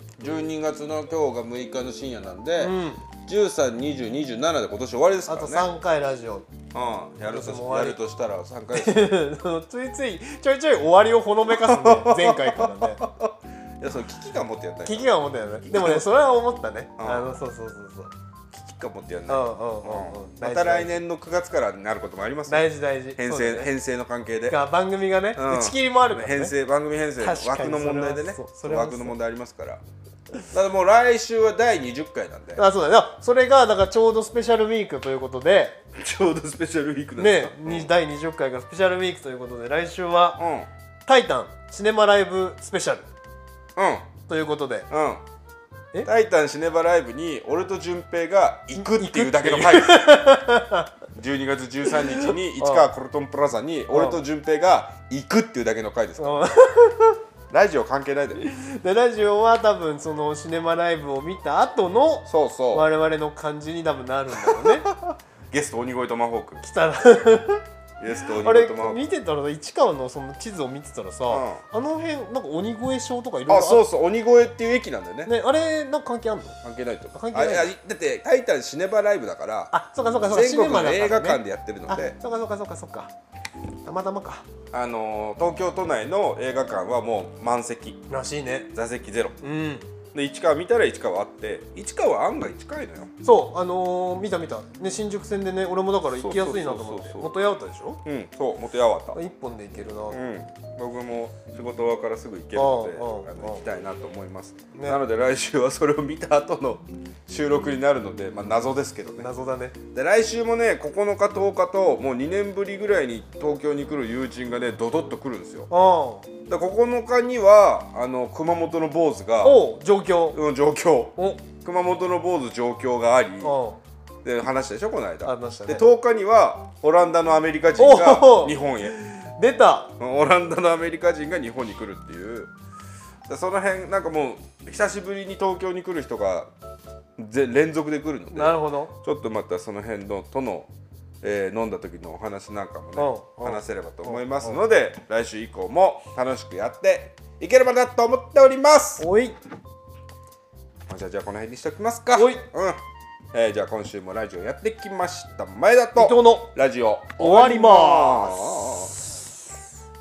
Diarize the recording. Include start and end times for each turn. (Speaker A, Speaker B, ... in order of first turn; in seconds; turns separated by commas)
Speaker A: 0.2-5.7, Speaker B: 2.6-3.0, Speaker B: 5.3-6.5, Speaker A: 6.7-9.1, Speaker B: 7.2-8.0, Speaker B: 8.7-13.0, Speaker A: 11.5-15.1, Speaker B: 14.8-18.1, Speaker A: 15.7-16.0, Speaker A: 17.0-17.3, Speaker A: 18.5-24.6, Speaker B: 19.3-21.0, Speaker B: 22.5-23.7, Speaker B: 24.5-26.5, Speaker A: 25.4-29.8, Speaker B: 27.2-29.1, Speaker A: 30.5-32.6, Speaker B: 32.6-35.8, Speaker A: 35.9-37.9, Speaker B: 37.2-40.4, Speaker A: 40.4-40.7, Speaker B: 41.0-43.1, Speaker A: 43.8-44.1, Speaker B: 44.3-44.9, Speaker A: 44.9-45.2, Speaker A: 46.0-50.1, Speaker B: 48.8-50.9, Speaker A: 51.1-56.5, Speaker B: 51.9-52.9, Speaker B: 53.9-54.2, Speaker B: 56.2-57.2, Speaker A: 57.5-58.5, Speaker B: 58.4-64.9, Speaker A: 62.3-62.9, Speaker A: 64.5-66.6, Speaker B: 66.6-67.6, Speaker A: 68.0-69.0, Speaker B: 68.3-73.8, Speaker A: 71.3-71.6, Speaker A: 73.5-75.3, Speaker B: 75.2-76.6, Speaker A: 76.6-79.7, Speaker B: 77.1-77.7, Speaker B: 79.7-83.1, Speaker A: 80.3-82.2, Speaker B: 83.8-84.5, Speaker A: 84.7-88.0, Speaker B: 88.1-88.7, Speaker A: 88.7-89.4, Speaker B: 89.4-89.9, Speaker A: 90.1-93.1, Speaker B: 93.2-98.0, Speaker A: 96.2-97.3, Speaker A: 98.0-99.2, Speaker B: 99.1-100.2, Speaker A: 100.1-109.3, Speaker B: 102.5-103.6, Speaker B: 104.7-105.0, Speaker B: 109.2-109.8, Speaker A: 109.9-115.7, Speaker B: 115.7-116.3, Speaker A: 116.5-119.6, Speaker B: 119.4-120.4, Speaker A: 120.3-123.5, Speaker B: 121.2-121.4, Speaker B: 123.4-123.8, Speaker A: 124.2-128.9, Speaker B: 125.2-125.8, Speaker B: 127.8-129.9, Speaker A: 130.0-132.5, Speaker A: 133.3-136.5, Speaker A: 137.2-140.7, Speaker B: 138.3-138.9, Speaker A: 141.2-149.1, Speaker B: 143.0-144.6, Speaker B: 149.0-149.4, Speaker A: 150.9-152.8, Speaker B: 152.1-152.4, Speaker A: 153.3-159.0, Speaker B: 155.9-156.5, Speaker B: 157.2-159.0